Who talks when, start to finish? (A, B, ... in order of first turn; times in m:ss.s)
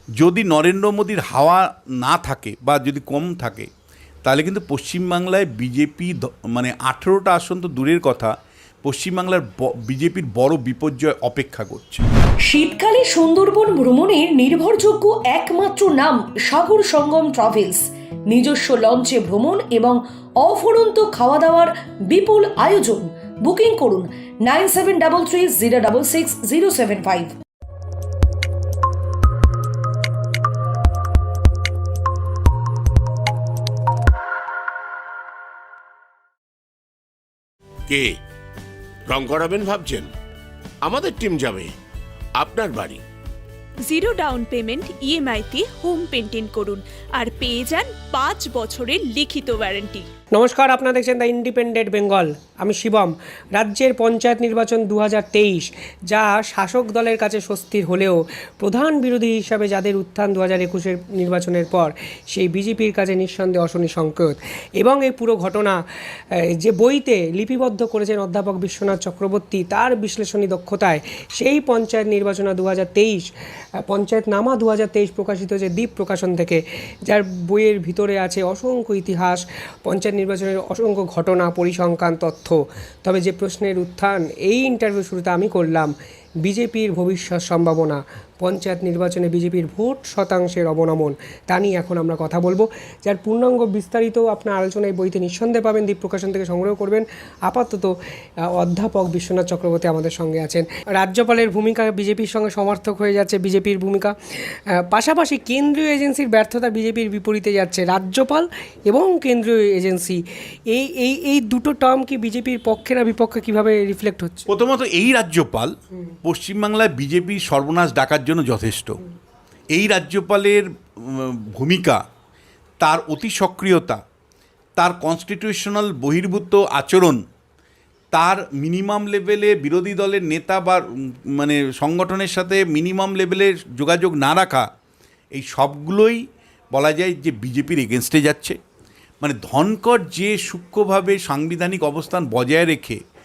0:00.2-0:03.7 A
0:04.2-0:08.3 A
0:08.8-0:12.1 A
0:12.4-0:27.3 B
0:37.9-0:38.2 C
0:39.1-0:40.1 C
0:40.8-0:41.7 C
0:42.4-0:43.0 C
0:43.8-0:50.1 D
0:50.3-1:13.3 E
1:13.8-1:37.9 E
1:38.4-1:50.2 E
1:50.7-1:54.5 E
1:54.5-1:55.7 A
1:56.2-1:59.0 A
1:59.7-2:02.0 A
2:02.8-2:04.0 A
2:04.8-2:07.2 A
2:08.1-2:14.7 A
2:15.3-2:16.2 A
2:16.7-2:18.6 A
2:19.2-2:23.0 A